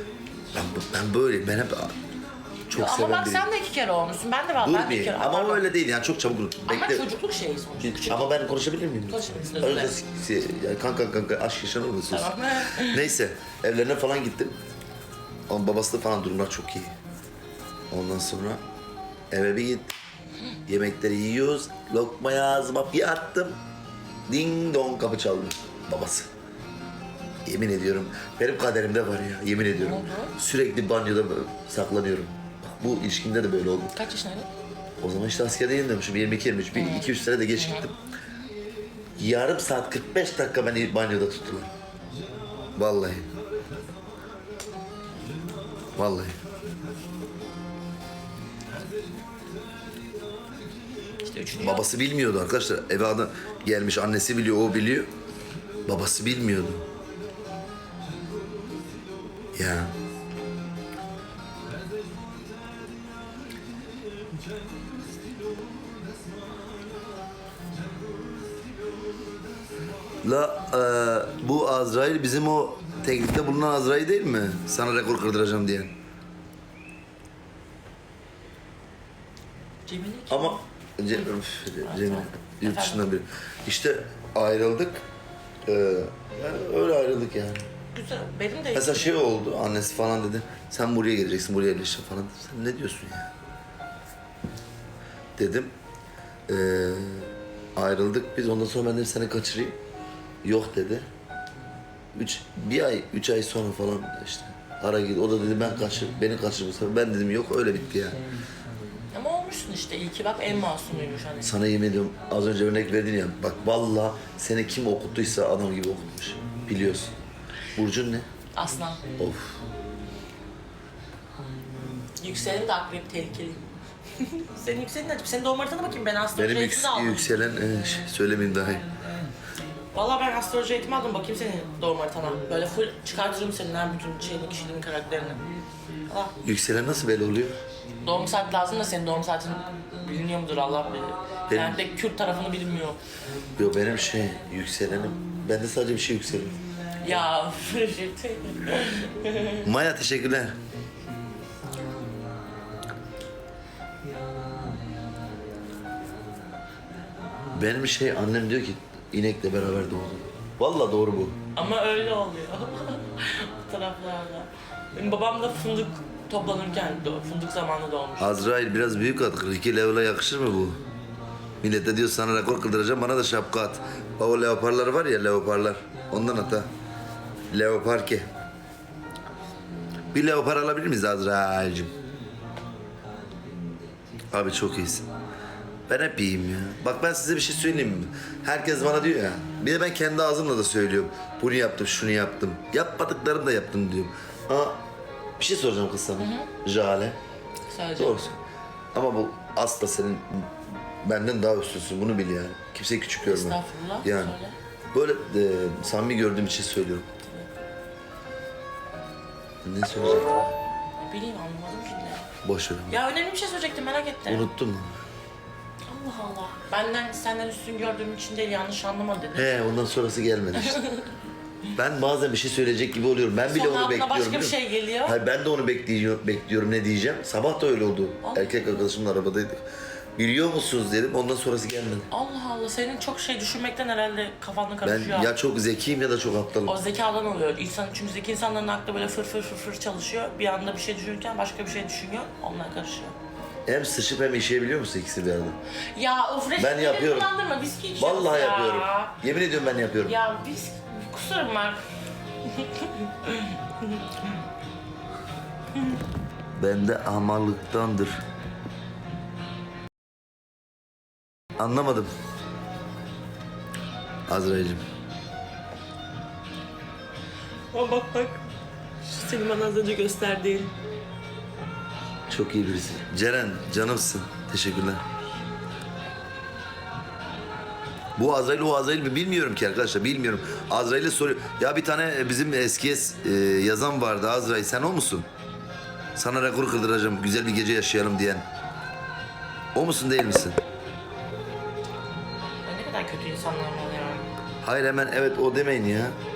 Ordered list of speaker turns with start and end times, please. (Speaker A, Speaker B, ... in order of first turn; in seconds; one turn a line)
Speaker A: 0.5-2.0
Speaker A: 2.7-3.5
Speaker B: 2.7-5.6
Speaker A: 4.6-7.0
Speaker B: 6.6-8.3
Speaker A: 7.8-14.6
Speaker B: 9.1-9.9
Speaker B: 12.1-13.1
Speaker A: 15.5-16.9
Speaker A: 17.9-18.6
Speaker A: 19.3-19.9
Speaker A: 20.7-23.6
Speaker A: 24.3-26.3
Speaker A: 27.4-33.9
Speaker B: 29.8-30.3
Speaker B: 33.9-34.5
Speaker A: 35.0-38.0
Speaker B: 36.7-37.9
Speaker A: 39.2-41.7
Speaker A: 42.8-43.3
Speaker A: 46.0-46.4
Speaker B: 51.2-51.9
Speaker A: 51.6-55.1
Speaker A: 55.9-56.8
Speaker A: 59.5-59.9
Speaker A: 70.2-75.9
Speaker B: 79.8-80.6
Speaker A: 80.3-85.0
Speaker B: 81.8-83.0
Speaker A: 85.7-87.6
Speaker B: 87.9-89.2
Speaker A: 88.7-93.3
Speaker A: 95.3-95.7
Speaker A: 96.5-99.8
Speaker A: 100.4-101.1
Speaker A: 102.1-108.2
Speaker B: 109.1-111.5
Speaker A: 111.4-117.1
Speaker A: 117.7-118.3
Speaker B: 118.5-119.0
Speaker A: 119.2-119.6
Speaker B: 122.2-127.2
Speaker A: 126.3-128.8
Speaker B: 129.9-135.4
Speaker B: 136.1-136.3
Speaker A: 136.4-137.6
Speaker B: 138.0-143.0
Speaker A: 141.5-141.8
Speaker A: 143.6-146.6
Speaker B: 147.0-149.7
Speaker A: 149.6-150.5
Speaker A: 157.5-161.3
Speaker B: 161.5-168.3
Speaker A: 168.2-170.8
Speaker A: 171.6-176.7
Speaker A: 177.5-178.3
Speaker A: 180.1-181.9
Speaker A: 184.3-185.1
Speaker A: 185.9-194.8
Speaker A: 195.4-197.2
Speaker B: 196.2-196.5
Speaker B: 197.7-198.2
Speaker A: 197.9-198.4
Speaker A: 198.9-204.4
Speaker B: 203.2-204.6
Speaker A: 204.9-207.1
Speaker B: 207.2-207.5
Speaker A: 209.6-210.5
Speaker B: 211.0-212.3
Speaker A: 212.4-213.0
Speaker B: 212.9-214.5
Speaker A: 214.3-215.0
Speaker B: 215.9-219.5
Speaker A: 219.3-220.8
Speaker B: 220.6-221.1
Speaker A: 221.8-229.6
Speaker B: 223.4-225.2
Speaker B: 228.2-228.8
Speaker A: 230.2-232.1
Speaker B: 232.1-235.3
Speaker A: 234.8-236.8
Speaker B: 236.7-243.1
Speaker A: 243.7-245.6
Speaker B: 245.9-249.2
Speaker A: 246.6-247.3
Speaker A: 248.0-250.2
Speaker B: 250.0-251.8
Speaker B: 252.4-254.3
Speaker A: 256.6-258.2
Speaker A: 261.6-262.1
Speaker A: 264.3-264.8
Speaker B: 267.7-268.5
Speaker B: 269.0-270.7
Speaker A: 272.3-275.0
Speaker A: 278.2-285.3
Speaker A: 286.1-288.4
Speaker A: 289.7-290.6
Speaker B: 292.6-294.3
Speaker A: 294.6-296.1